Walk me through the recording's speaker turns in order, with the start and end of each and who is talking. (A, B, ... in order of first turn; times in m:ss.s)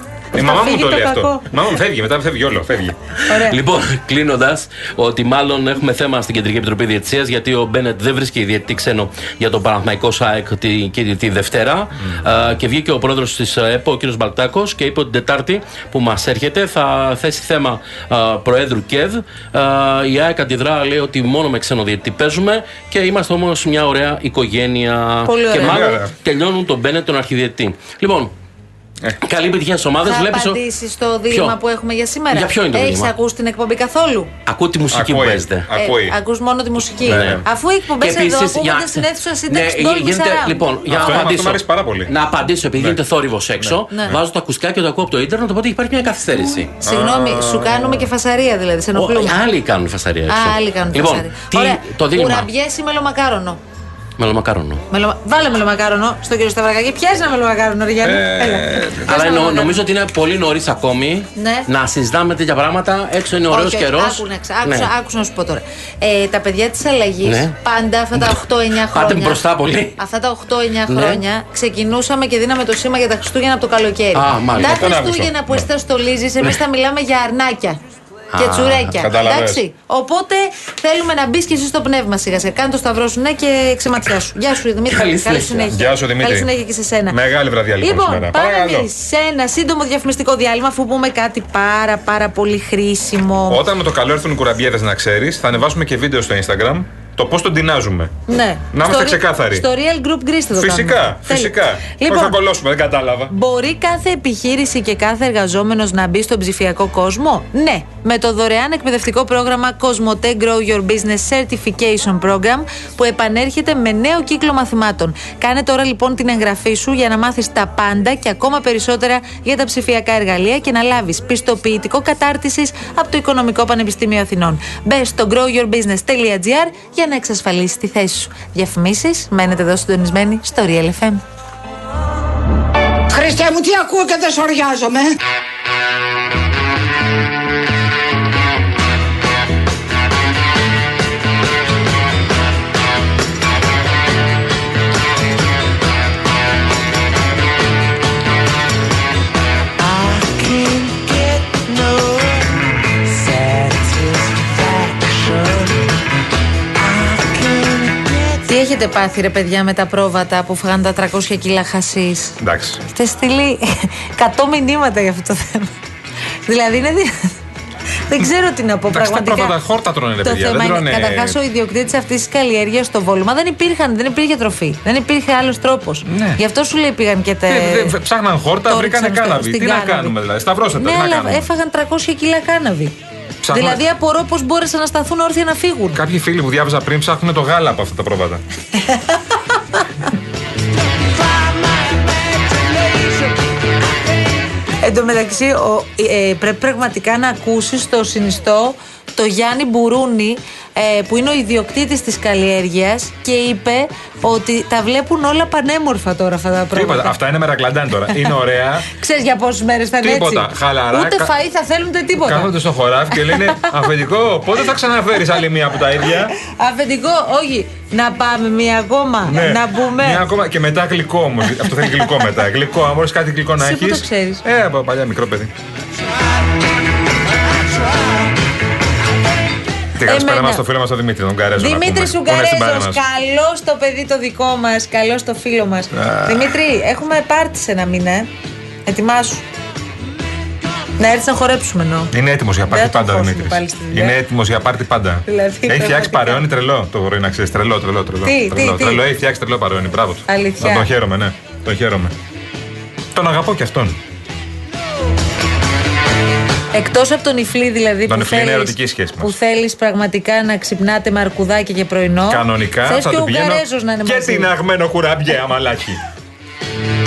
0:00.3-0:03.1 A
0:00.3-0:01.6 B
0:03.2-0:28.3 C
0:03.3-0:03.6 B
0:25.2-0:26.0 B
0:25.5-0:26.1 A
0:29.2-0:30.6 C
0:30.0-0:34.3 B
0:31.3-0:31.6 C
0:32.3-0:33.1 C
0:34.4-0:35.7 C
0:34.9-0:36.2 A
0:35.7-0:41.3 B
0:37.0-0:37.4 A
0:37.0-0:46.8 C
0:40.9-0:42.1 A
0:43.6-0:44.2 A
0:43.9-0:44.1 B
0:46.8-0:48.1 A
0:46.8-0:49.4 B
0:48.9-0:52.5 C
0:50.3-0:53.6 B
0:54.2-0:54.8 C
0:54.9-0:59.8 B
0:58.0-0:59.1 A
0:59.0-1:04.9 C
1:01.4-1:01.7 B
1:03.5-1:09.4 B
1:07.2-1:07.5 C
1:08.1-1:10.0 C
1:10.0-1:17.8 B
1:10.9-1:11.2 C
1:14.1-1:14.9 C
1:14.6-1:15.7 A
1:18.3-1:19.0 C
1:18.4-1:27.2 B
1:18.9-1:19.6 A
1:24.8-1:25.8 C
1:25.7-1:26.5 A
1:27.1-1:28.9 A
1:27.8-1:33.6 B
1:33.5-1:38.2 A
1:38.3-1:42.4 B
1:38.7-1:39.6 A
1:40.5-1:43.3 A
1:43.3-2:11.2 B
2:13.1-2:15.1 D
2:30.1-2:32.4 E
2:33.2-2:35.7 E
2:36.8-2:38.4 E
2:38.4-2:42.4 B
2:42.4-2:42.8 A
2:42.9-2:45.7 B
2:46.4-2:47.1 B
2:48.1-2:49.5 B
2:48.9-2:51.4 A
2:50.2-2:57.9 B
2:56.0-2:56.4 A
2:57.5-3:01.5 A
2:58.7-3:00.1 B
3:00.8-3:03.0 B
3:03.4-3:03.8 A
3:03.5-3:06.0 B
3:05.9-3:08.4 A
3:08.7-3:09.5 B
3:11.5-3:12.6 E
3:14.7-3:27.2 B
3:26.7-3:28.9 A
3:28.9-3:32.5 B
3:30.0-3:31.3 A
3:32.2-3:36.4 A
3:33.1-3:33.7 B
3:36.4-3:40.2 B
3:39.3-3:45.5 A
3:41.6-3:42.1 B
3:43.6-3:44.4 B
3:50.0-3:53.0 A
3:50.0-3:50.6 B
3:51.6-3:58.3 B
3:56.0-3:56.5 A
3:58.9-3:59.4 B
4:01.0-4:02.1 B
4:02.1-4:12.1 A
4:02.6-4:04.2 B
4:05.3-4:06.4 B
4:08.2-4:09.0 B
4:10.3-4:10.9 B
4:13.1-4:14.0 A
4:16.7-4:24.5 B
4:18.1-4:19.3 A
4:22.3-4:26.0 A